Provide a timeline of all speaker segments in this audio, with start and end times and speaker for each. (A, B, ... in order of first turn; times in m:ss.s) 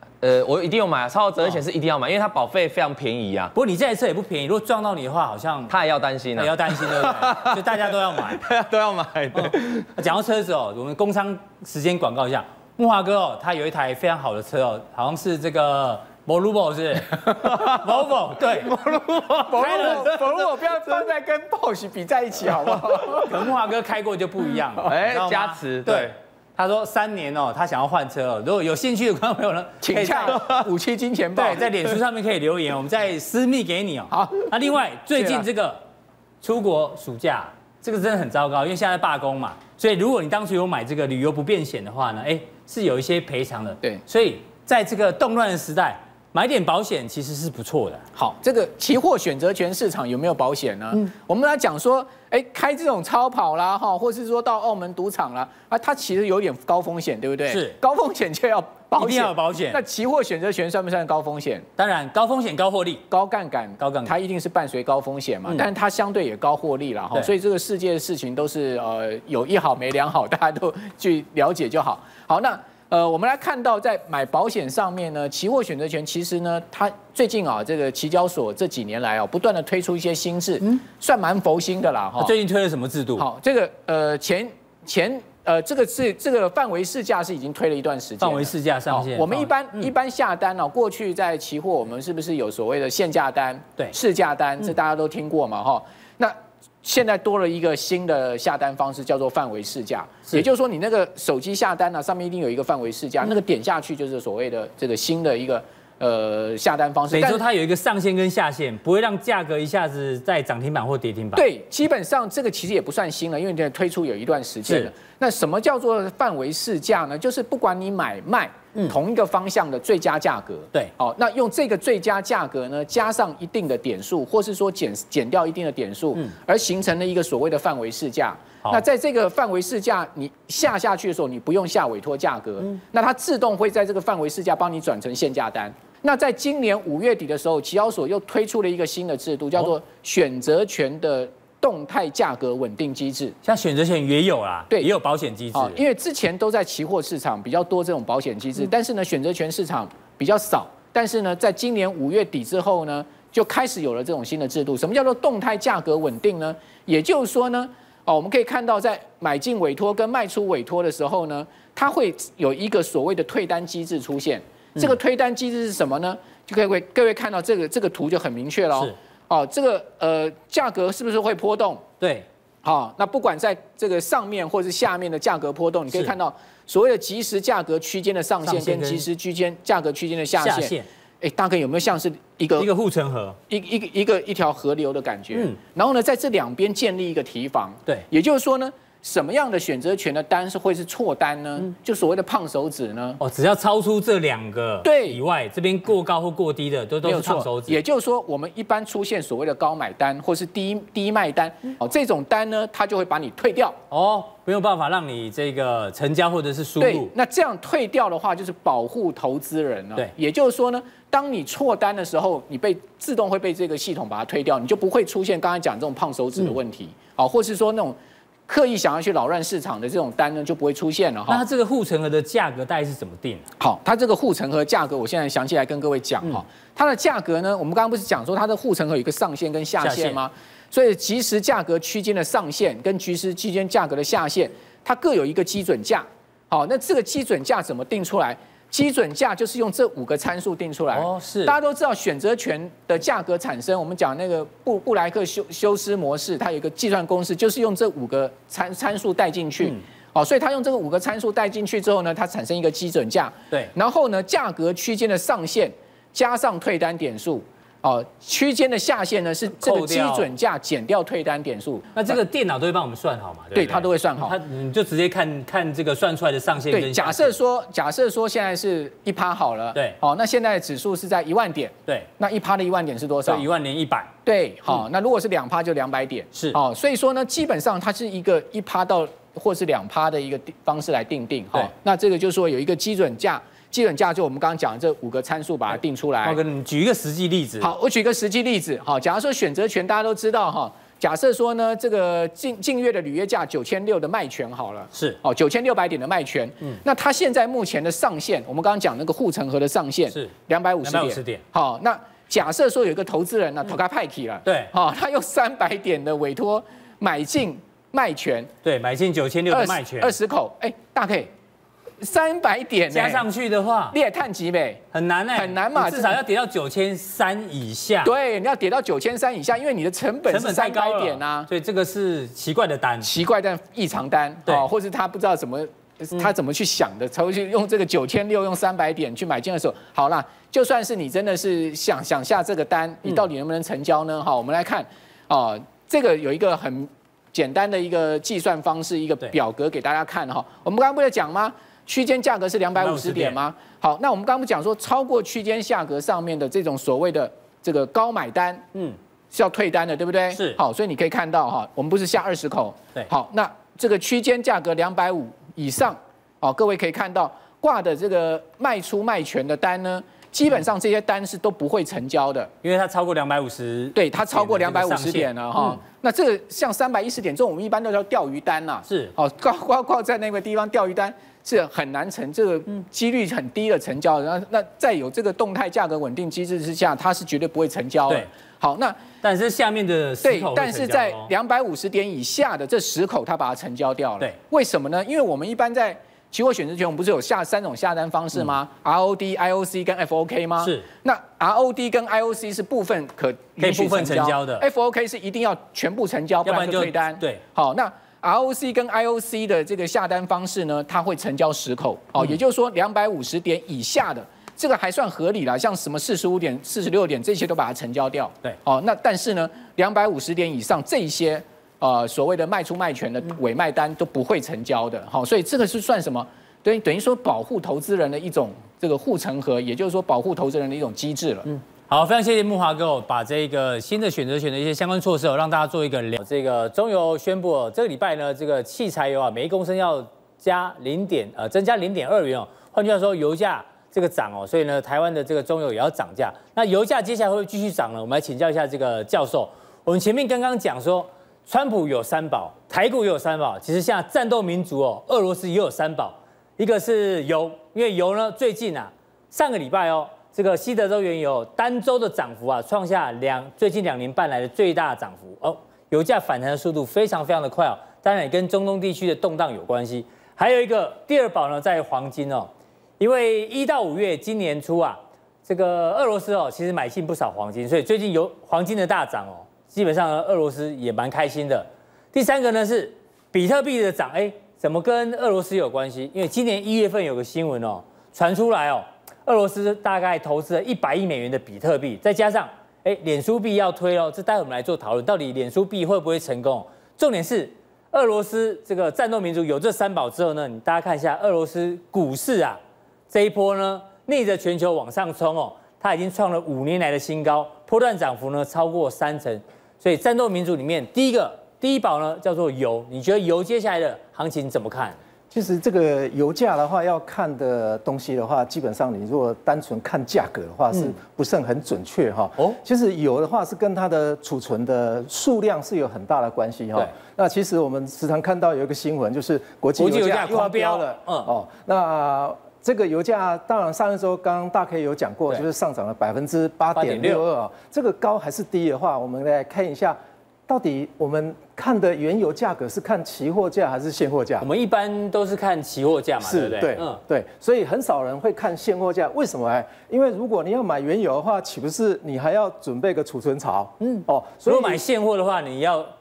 0:00.2-0:03.5 A
0:03.5-0:05.7 B
0:05.7-0:09.9 A
0:06.4-0:08.5 B
0:09.3-0:18.8 B
0:17.3-0:17.9 A
0:18.5-0:20.2 A
0:19.4-0:23.4 C
0:19.5-0:20.2 B
0:23.2-0:30.4 B
0:24.8-0:26.1 A
0:29.8-0:31.7 C
0:31.4-0:35.8 B
0:34.1-0:34.5 C
0:35.2-0:35.4 C
0:36.4-0:48.1 B
0:48.2-1:01.7 C
0:57.5-0:57.8 B
0:59.0-0:59.8 B
1:01.8-1:03.0 B
1:03.1-1:22.3 C
1:03.8-1:04.1 B
1:22.2-1:23.3 B
1:23.2-1:47.4 C
1:28.2-1:29.9 B
1:47.1-1:51.5 B
1:51.3-2:23.4 C
1:54.6-1:54.9 B
2:23.4-2:25.8 B
2:25.5-2:51.8 C
2:52.0-2:52.3 B
2:52.6-3:02.7 C
2:58.4-2:59.1 B
3:00.4-3:00.9 B
3:02.6-3:03.4 B
3:03.5-3:13.2 C
3:13.2-3:17.8 B
3:14.8-3:15.2 C
3:17.0-3:23.8 C
3:23.9-3:27.1 B
3:26.8-3:38.0 C
3:38.5-3:41.4 C
3:41.3-3:43.5 B
3:43.6-4:22.0 C
3:49.8-3:50.2 B
4:00.9-4:01.6 B
4:19.6-4:20.3 B
4:22.0-4:27.4 B
4:23.6-4:24.4 C
4:26.7-4:33.4 C
4:33.3-4:34.1 B
4:34.2-4:46.4 C
4:46.2-4:47.7 B
4:47.6-5:08.5 C
4:54.9-4:55.2 B
5:00.8-5:01.4 B
5:04.4-5:04.7 B
5:08.6-5:10.2 B
5:09.5-5:11.3 C
5:12.0-5:13.3 C
5:12.9-5:14.0 B
5:13.9-5:16.2 C
5:14.9-5:18.1 B
5:18.0-5:21.5 C
5:20.3-5:23.1 B
5:23.0-5:48.6 C
5:42.8-5:43.4 B
5:49.3-6:02.5 C
5:50.3-5:50.6 B
6:02.6-6:05.8 B
6:04.0-6:19.0 C
6:08.9-6:09.1 B
6:19.2-6:21.3 B
6:20.2-7:01.6 C
6:30.6-6:30.8 B
6:33.6-6:34.6 B
6:36.4-6:37.4 B
7:01.9-8:25.0 B
8:25.3-8:54.5 D
8:39.8-8:41.3 B
8:46.8-8:47.2 B
8:54.4-8:57.0 B
8:56.2-9:04.8 D
9:03.8-9:05.9 B